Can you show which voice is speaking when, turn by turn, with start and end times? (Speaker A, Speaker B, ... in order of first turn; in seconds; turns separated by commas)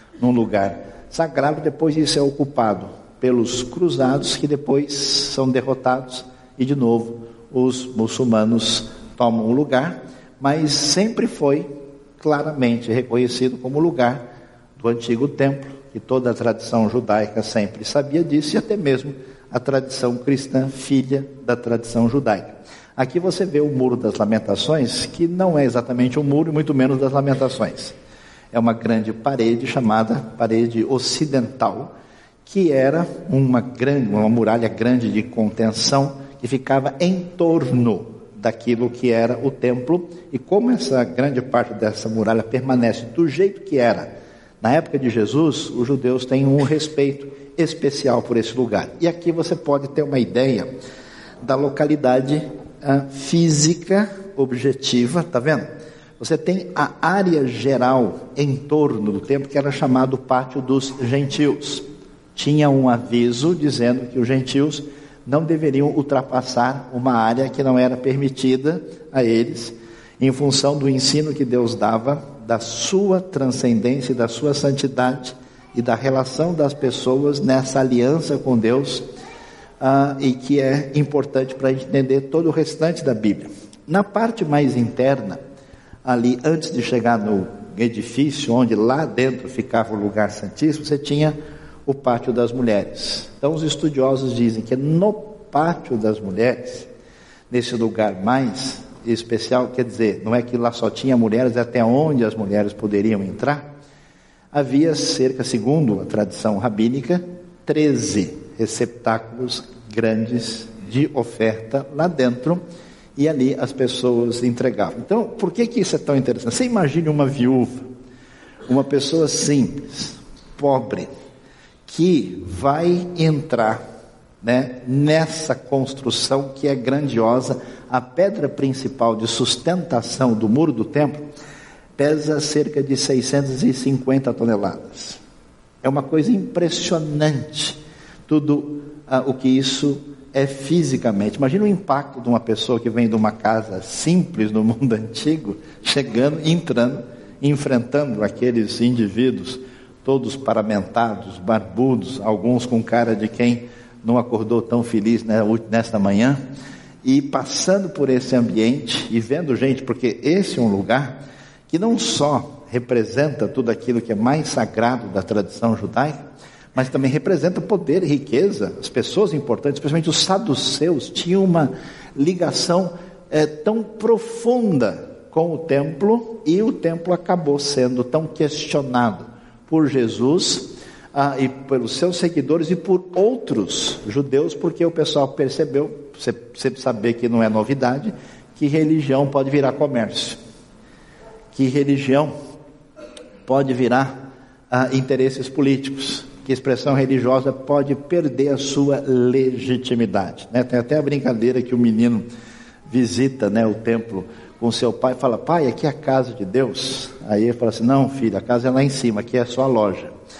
Speaker A: 0.2-11.7, Speaker A: 12.2-14.2, Speaker A: 14.8-27.9, Speaker A: 28.5-31.9, Speaker A: 32.4-50.7, Speaker A: 51.4-55.7, Speaker A: 56.2-79.0, Speaker A: 79.8-85.4, Speaker A: 86.0-96.9, Speaker A: 97.5-103.7, Speaker A: 104.5-112.6, Speaker A: 113.2-117.8, Speaker A: 118.7-121.1, Speaker A: 121.9-123.8, Speaker A: 124.4-131.2, Speaker A: 132.0-135.2, Speaker A: 135.8-156.4, Speaker A: 157.0-161.2, Speaker A: 161.7-166.2, Speaker A: 166.7-190.4, Speaker A: 191.5-192.3, Speaker A: 193.4-194.2, Speaker A: 194.7-202.2, Speaker A: 202.9-210.1